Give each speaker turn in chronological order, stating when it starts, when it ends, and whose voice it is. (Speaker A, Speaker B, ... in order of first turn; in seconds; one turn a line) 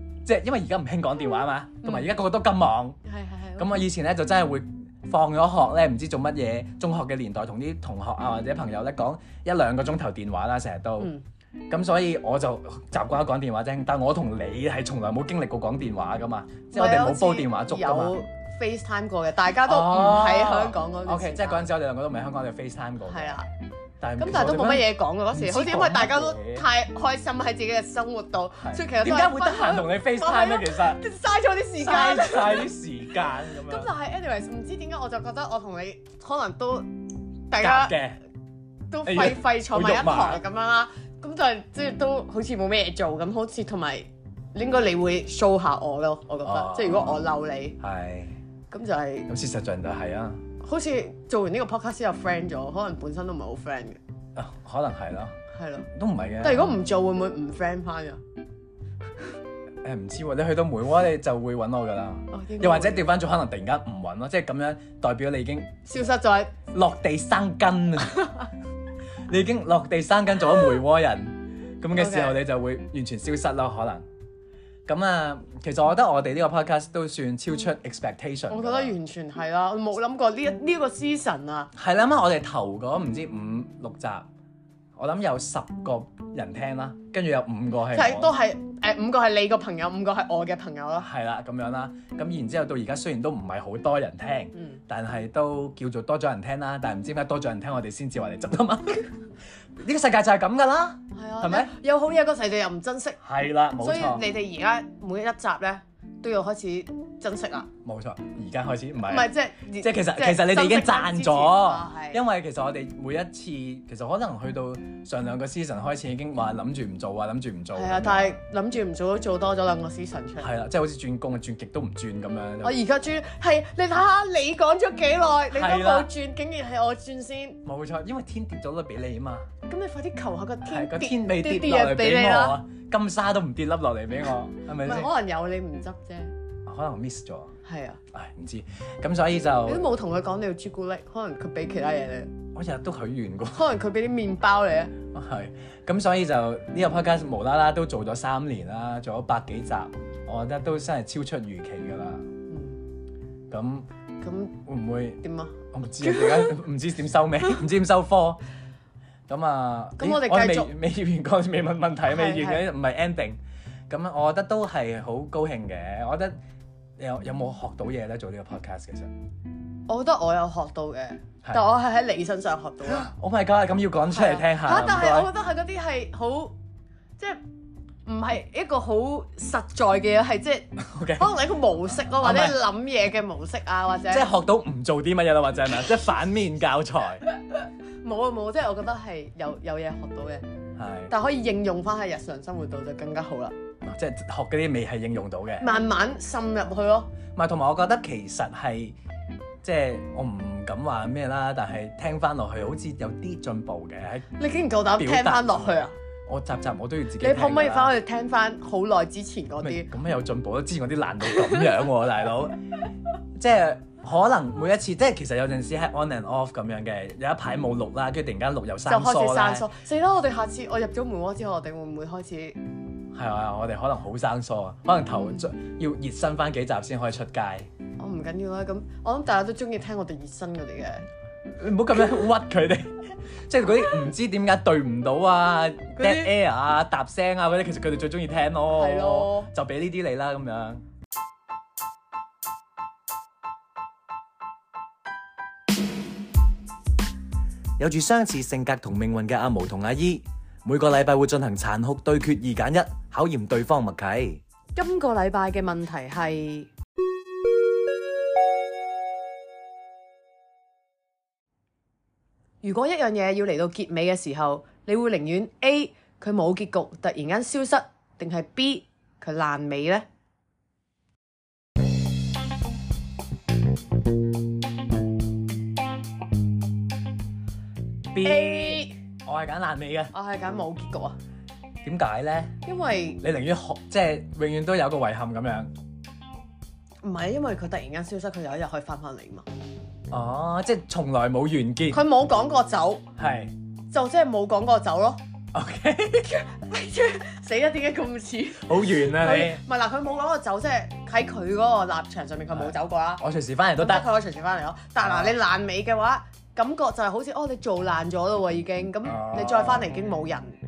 Speaker A: 0.2-3.0
Speaker B: 1.8-2.1
Speaker B: 3.0-3.8
Speaker A: 3.6-11.1
Speaker A: 11.7-18.1
Speaker B: 16.7-21.6
Speaker A: 19.6-23.4
Speaker B: 23.0-23.5
Speaker A: 24.0-26.6
Speaker B: 24.2-32.7
Speaker A: 28.6-31.0
Speaker A: 31.8-33.9
Speaker B: 33.5-36.9
Speaker B: 37.5-38.0
Speaker A: 37.6-38.2
Speaker B: 38.9-47.8
Speaker A: 39.0-40.4
Speaker A: 46.4-47.2
Speaker A: 47.8-48.4
Speaker B: 48.7-49.3
Speaker A: 49.3-50.4
Speaker B: 50.6-54.0
Speaker A: 54.4-55.4
Speaker B: 55.5-55.9
Speaker A: 55.9-56.7
Speaker B: 56.4-58.2
Speaker A: 59.8-65.8
Speaker B: 62.3-63.0
Speaker B: 65.8-66.5
Speaker A: 66.7-68.2
Speaker B: 68.2-68.5
Speaker A: 69.3-74.0
Speaker B: 71.9-72.4
Speaker A: 74.8-79.0
Speaker B: 78.5-81.7
Speaker A: 81.7-84.3
Speaker A: 85.0-88.3
Speaker B: 87.9-91.1
Speaker A: 91.0-99.1
Speaker B: 94.5-94.8
Speaker A: 99.8-101.7
Speaker B: 101.1-103.2
Speaker A: 103.2-104.2
Speaker B: 103.8-107.7
Speaker A: 107.8-118.4
Speaker B: 109.0-112.2
Speaker B: 117.7-120.5
Speaker A: 120.4-122.8
Speaker B: 122.6-127.6
Speaker A: 125.5-126.1
Speaker A: 127.6-129.5
Speaker B: 129.7-132.6
Speaker A: 130.6-135.1
Speaker B: 134.8-136.3
Speaker A: 136.7-137.5
Speaker B: 137.6-138.0
Speaker A: 138.1-139.8
Speaker B: 139.7-142.3
Speaker A: 142.5-143.6
Speaker B: 143.5-144.9
Speaker A: 145.1-152.2
Speaker B: 152.5-152.8
Speaker A: 153.5-153.9
Speaker B: 154.2-154.6
Speaker A: 154.6-155.2
Speaker B: 155.2-156.6
Speaker A: 155.7-158.4
Speaker A: 159.3-166.3
Speaker B: 160.0-160.7
Speaker B: 162.1-162.6
Speaker A: 167.0-169.1
Speaker B: 169.9-173.1
Speaker A: 172.8-175.3
Speaker B: 174.1-176.5
Speaker B: 178.1-184.3
Speaker A: 180.8-182.6
Speaker A: 184.1-187.2
Speaker B: 188.0-190.4
Speaker A: 190.8-191.1
Speaker B: 191.1-193.5
Speaker A: 193.8-195.7
Speaker B: 195.6-197.1
Speaker A: 197.3-199.0
Speaker A: 199.6-204.3
Speaker B: 204.4-205.9
Speaker A: 205.0-207.9
Speaker B: 207.2-209.9
Speaker A: 209.6-212.6
Speaker A: 213.3-219.6
Speaker B: 218.9-222.6
Speaker A: 223.1-227.7
Speaker B: 225.1-225.4
Speaker B: 228.0-231.1
Speaker A: 231.5-240.8
Speaker B: 235.9-236.3
Speaker B: 238.7-239.5
Speaker A: 247.8-254.4
Speaker B: 254.8-256.7
Speaker B: 262.6-270.0
Speaker A: 278.1-280.1
Speaker B: 278.2-278.9
Speaker B: 280.1-281.2
Speaker A: 281.8-282.6
Speaker B: 282.6-283.2
Speaker A: 283.2-285.7
Speaker B: 287.0-289.4
Speaker A: 290.1-292.0
Speaker B: 291.9-293.1
Speaker A: 293.2-293.5
Speaker B: 293.9-295.2
Speaker A: 295.5-296.3
Speaker B: 296.2-303.2
Speaker A: 298.6-299.6
Speaker A: 302.5-304.1
Speaker B: 303.8-310.6
Speaker A: 305.0-305.4
Speaker A: 309.0-309.9